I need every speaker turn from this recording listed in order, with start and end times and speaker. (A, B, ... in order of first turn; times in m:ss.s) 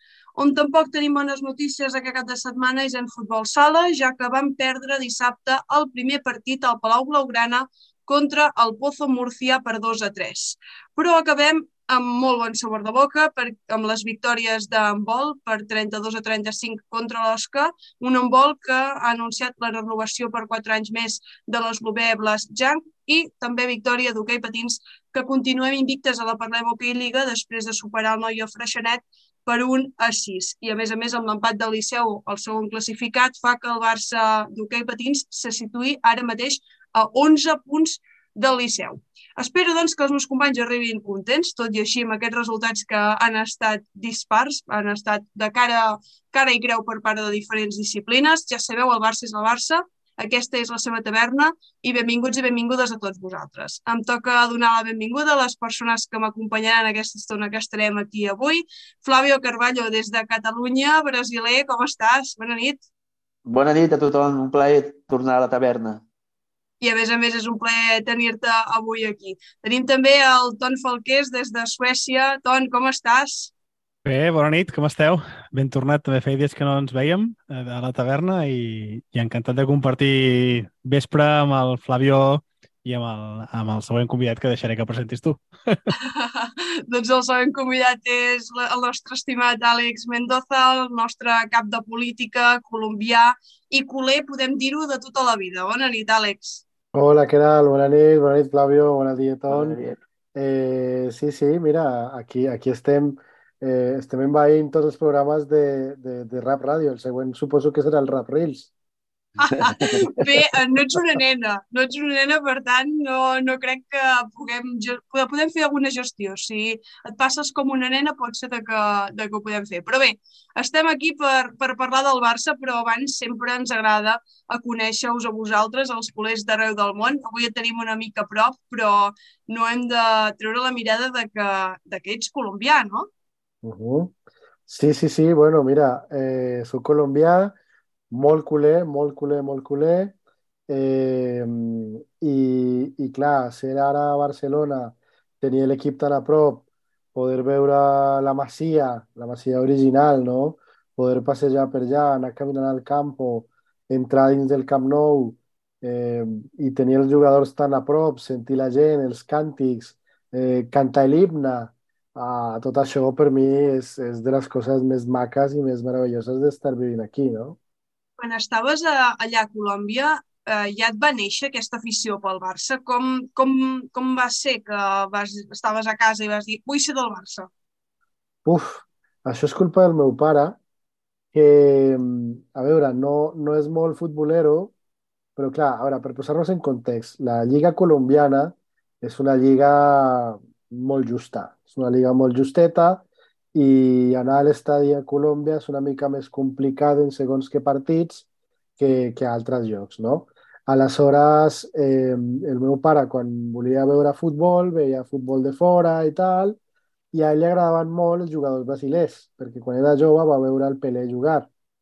0:00.4-1:02.8 A
1:03.4-1:06.0 B
1:06.8-1:13.5 A
1:14.0-1:25.8 C
1:26.0-1:36.6 A
1:36.9-1:39.8 D
1:39.5-1:40.0 B
1:40.3-1:48.7 D
1:49.4-2:13.1 A
1:49.6-1:50.4 B
2:13.6-2:14.1 D
2:14.7-2:17.6 D
2:18.1-2:20.1 D
2:20.7-2:47.6 D
2:48.2-2:57.5 A
2:58.4-3:00.6 D
3:01.3-3:04.7 D
3:05.4-3:18.2 D
3:18.8-3:26.6 D
3:27.1-3:31.5 D